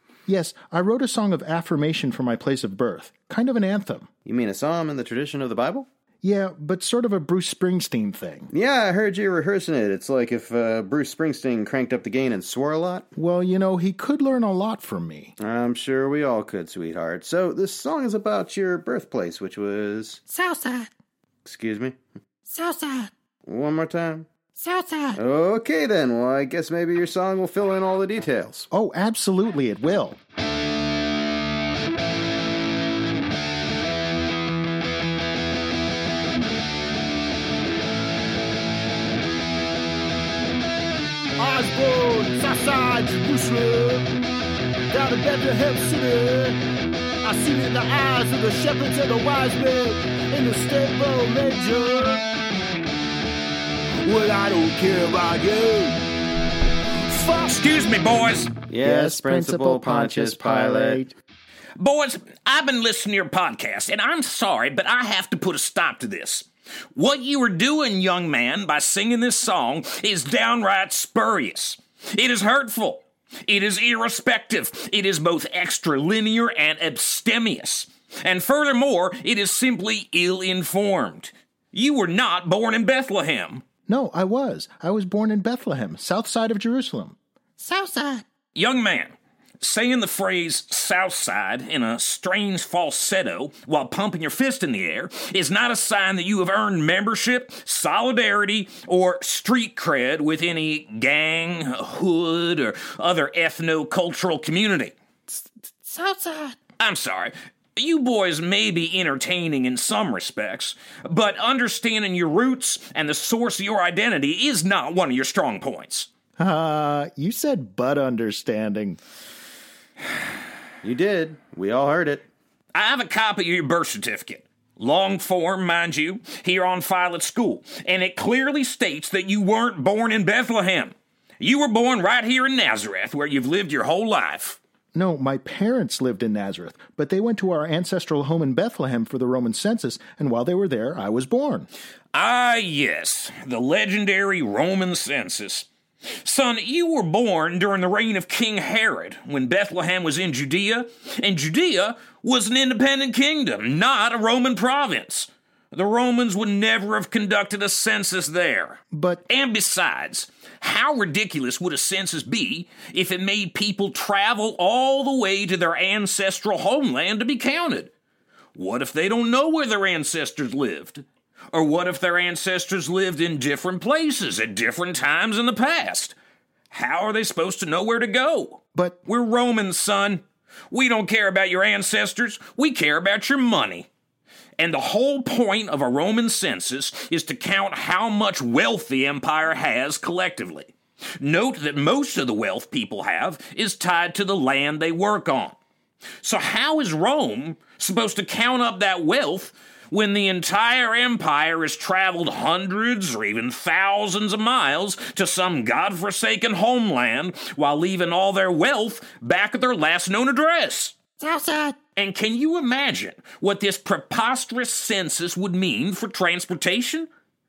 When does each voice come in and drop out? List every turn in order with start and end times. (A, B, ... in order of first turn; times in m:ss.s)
0:00.3-0:04.1 A
0:04.2-0:05.9 B
0:06.2-0:08.5 A
0:08.5-0:13.1 B
0:13.2-0:15.4 A
0:15.4-0:20.2 B
0:20.5-0:20.9 C
0:21.4-0:22.0 B
0:22.5-0:23.1 C
0:23.5-0:24.3 B
0:24.6-0:25.2 C
0:25.1-0:28.7 B
0:28.7-0:30.2 A
0:41.4-0:44.1 D
0:44.9-0:46.6 D
0:47.2-0:52.2 D
0:54.0-0:56.0 D
0:57.0-0:58.5 E
0:58.7-1:01.0 B
0:58.8-1:01.1 A
1:01.8-1:23.6 E
1:23.9-1:27.2 A
1:27.6-1:28.2 C
1:28.5-1:44.9 E
1:45.9-1:46.5 C
1:46.8-1:56.1 E
1:56.4-1:59.0 A
2:00.8-2:02.2 B
2:02.7-2:14.6 E
2:15.0-2:21.7 A
2:22.1-2:25.7 E
2:26.2-2:47.9 E
2:38.9-2:39.2 A
2:48.6-2:56.2 E
2:56.7-3:03.9 E
2:58.7-2:59.0 A
3:04.6-3:15.6 E
3:16.2-3:31.0 E
3:31.2-3:31.8 C
3:31.9-3:37.1 E